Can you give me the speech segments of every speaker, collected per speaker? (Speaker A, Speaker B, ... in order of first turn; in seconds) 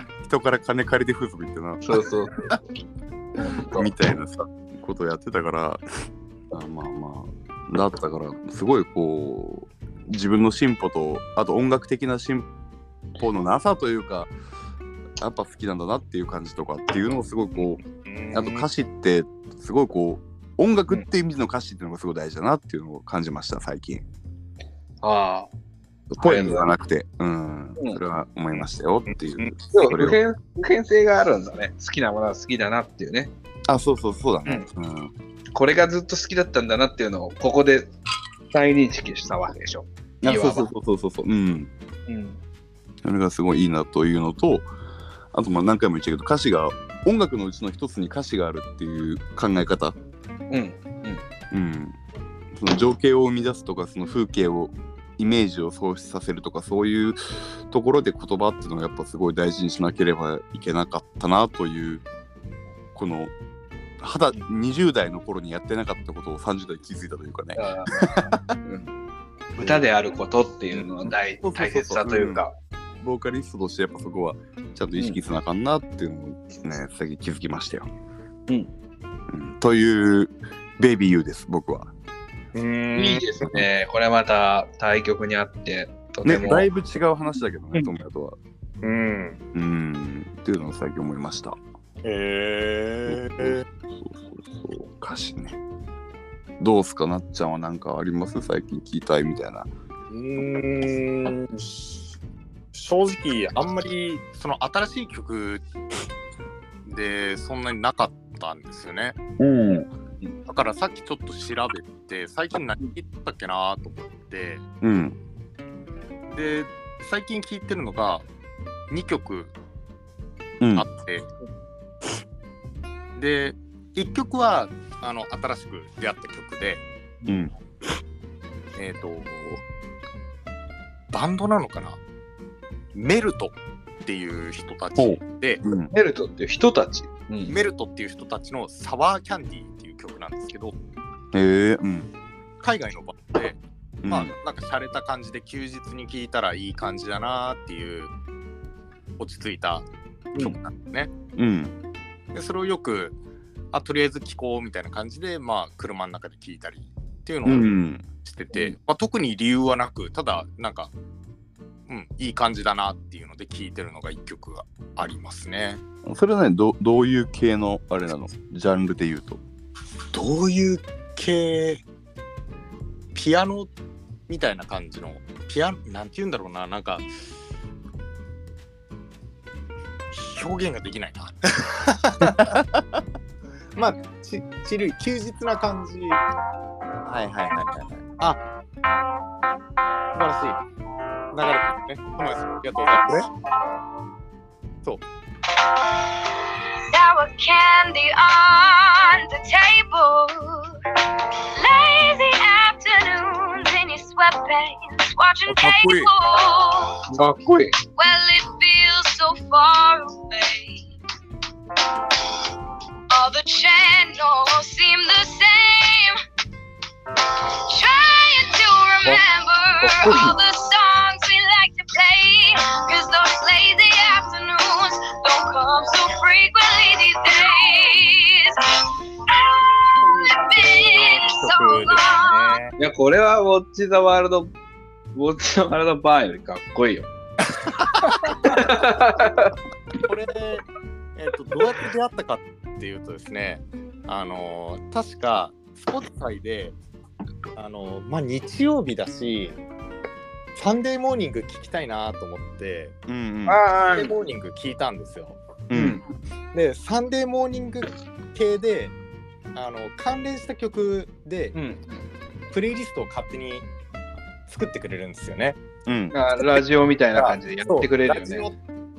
Speaker A: 0.2-1.9, 3.7-5.8, 6.5-12.5, 13.2-14.3, 15.2-17.8, 18.3-24.0, 26.1-30.2, 33.7-35.1, 40.2-41.7, 43.0-44.7, 45.3-50.0, 51.5-52.0, 52.5-62.0, 62.9-63.3, 64.0-68.5, 69.6-69.8, 70.7-72.4, 73.0-77.9, 79.3-81.9, 86.2-88.4, 89.5-91.6, 93.1-95.6, 96.6-99.7, 109.4-109.9, 114.8-115.2, 120.6-120.9, 127.3-127.5, 135.0-135.9, 141.3-142.1, 144.0-144.3, 151.3-151.7, 157.4-158.0, 166.0-169.4, 182.2-183.0, 187.0-188.0, 205.4-206.1, 253.1-253.6, 255.7-256.0, 265.9-266.1
Speaker B: 1.8-2.5, 3.4-3.9, 25.0-25.5, 26.2-26.7, 29.7-33.3, 35.5-37.9, 38.5-40.7, 42.1-42.4, 50.5-51.2, 67.5-68.9, 69.6-72.5, 83.0-86.7, 135.9-137.5, 207.1-207.8, 219.8-220.3, 232.8-234.5, 235.1-237.1, 238.0-239.5, 253.5-254.2, 255.7-256.0, 261.5-262.0, 266.1-268.5
Speaker C: 17.9-18.7, 29.1-29.5, 82.5-83.3, 88.8-89.4, 92.0-93.6, 100.1-102.1, 102.7-105.6, 106.8-109.2, 110.5-114.6, 116.3-118.2, 118.9-119.5, 120.7-121.3, 123.2-126.8, 128.8-129.6, 131.1-132.0, 132.9-133.5, 134.0-135.6, 137.5-140.7, 142.6-148.1, 149.2-151.1, 152.3-153.2, 153.7-157.7, 158.2-160.9, 161.9-165.8, 170.1-171.8, 173.1-173.7, 174.3-177.1, 180.1-182.6, 183.8-186.2, 190.1-190.6, 191.3-193.3, 230.1-232.7, 240.0-240.6, 241.2-246.8, 247.5-249.6, 250.6-252.9, 253.8-255.4, 256.5-258.9, 259.5-261.6, 262.5-263.7, 264.5-265.6, 267.1-268.6
Speaker D: 195.9-196.2, 196.9-200.8, 201.5-207.0, 207.9-210.9, 213.1-216.2, 217.7-232.6